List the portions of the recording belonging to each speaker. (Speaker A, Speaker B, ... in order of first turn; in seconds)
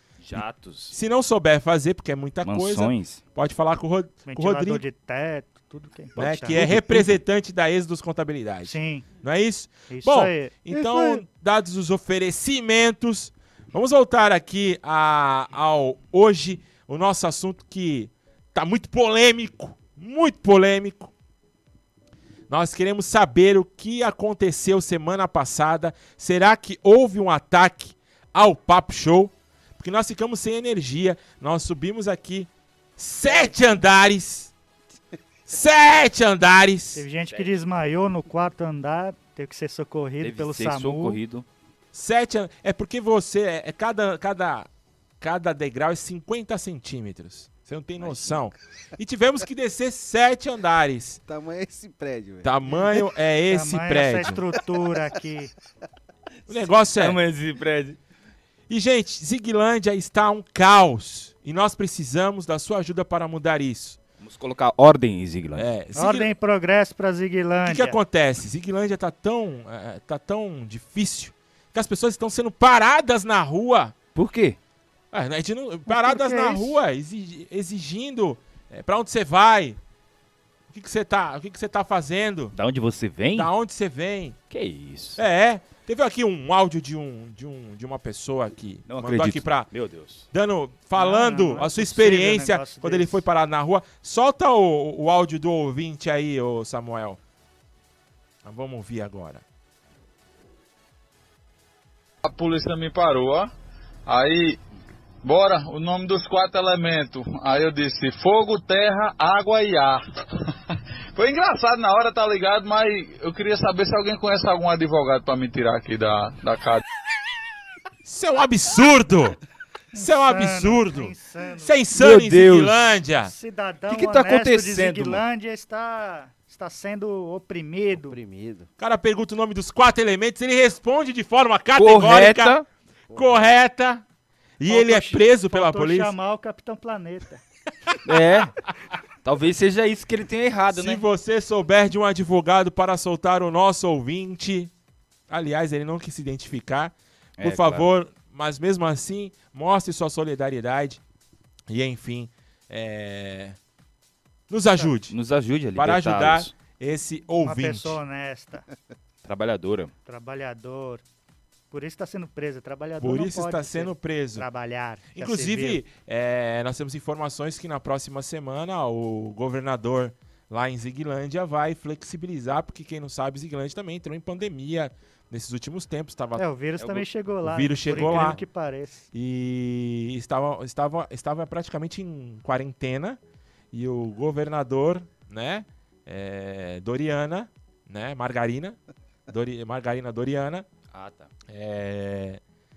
Speaker A: 0.2-1.0, 2.4-3.2, 6.6-6.8, 40.2-41.5, 57.0-58.0, 64.2-65.7, 74.2-74.6, 82.5-83.5, 84.5-85.2, 88.9-90.2, 122.0-123.0, 123.9-125.2, 131.8-132.7, 138.1-138.5, 139.2-141.0, 147.4-147.9, 155.1-156.5, 159.2-159.9, 177.9-178.4, 190.9-191.3
Speaker B: 0.9-4.8, 6.2-21.1, 22.5-34.5, 35.5-37.0, 41.9-44.7, 45.2-51.2, 52.4-54.4, 56.5-57.2, 58.7-64.0, 65.6-66.3, 67.7-74.0, 75.1-79.8, 80.7-82.5, 83.3-84.4, 85.2-89.7, 90.3-97.2, 98.4-99.4, 118.0-119.4, 120.0-123.3, 128.8-132.5, 133.1-134.0, 134.6-136.1, 140.7-144.7, 145.3-151.0, 151.7-153.6, 154.5-155.1, 155.8-158.0, 163.0-164.5, 165.1-176.4, 177.4-178.4, 179.1-183.2, 183.7-188.8, 189.3-190.7, 191.5-192.4
Speaker C: 4.3-7.1, 8.6-9.1, 9.9-11.2, 36.9-41.2, 53.5-55.5, 66.0-68.0, 75.9-76.7, 91.0-93.2, 119.9-121.7, 123.3-128.2, 134.7-137.4, 157.4-158.7, 160.1-161.0, 161.7-165.8, 176.4-179.1
Speaker D: 51.2-52.5, 127.9-128.7, 133.1-133.5
Speaker E: 102.2-103.5, 104.1-104.6, 105.2-110.0, 111.2-116.8